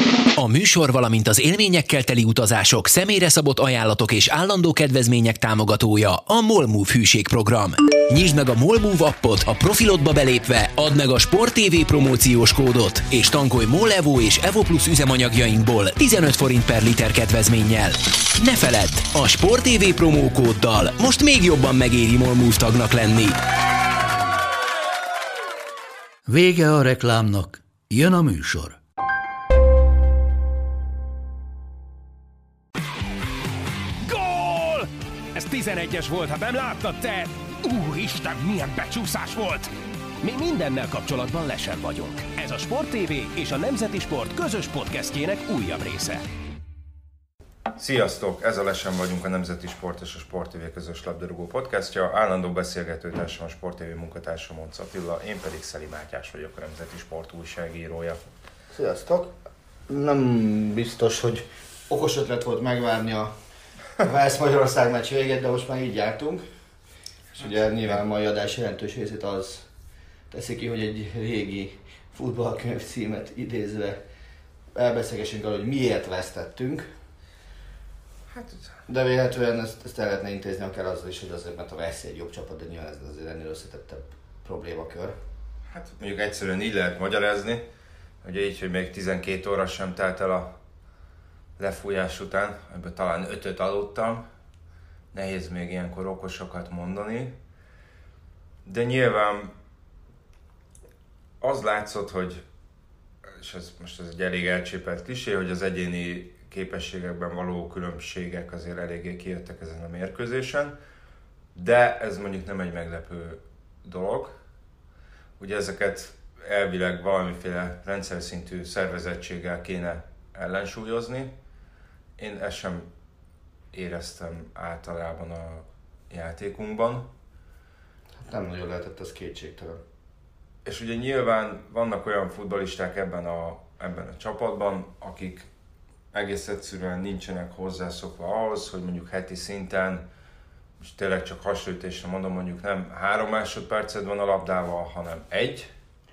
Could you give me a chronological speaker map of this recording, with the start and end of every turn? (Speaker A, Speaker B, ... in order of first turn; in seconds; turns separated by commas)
Speaker A: 0.3-23.4, Speaker B: 26.3-28.8, Speaker C: 34.0-39.7, Speaker C: 40.2-46.2, Speaker D: 47.8-58.2, Speaker E: 58.7-59.3, Speaker E: 59.9-63.3, Speaker E: 64.0-66.4, Speaker E: 67.3-69.7, Speaker E: 70.3-74.0, Speaker E: 74.7-76.9, Speaker D: 78.3-78.8, Speaker E: 78.9-85.2, Speaker D: 85.7-87.6, Speaker D: 88.2-90.5, Speaker D: 91.6-94.2, Speaker D: 95.1-97.3, Speaker D: 98.6-99.5, Speaker D: 101.4-102.4, Speaker D: 103.2-110.7, Speaker D: 111.5-114.3, Speaker D: 115.4-121.3, Speaker D: 122.2-122.9, Speaker D: 123.7-127.1, Speaker E: 128.2-129.8, Speaker D: 130.6-135.5, Speaker D: 136.1-140.0, Speaker D: 140.8-145.7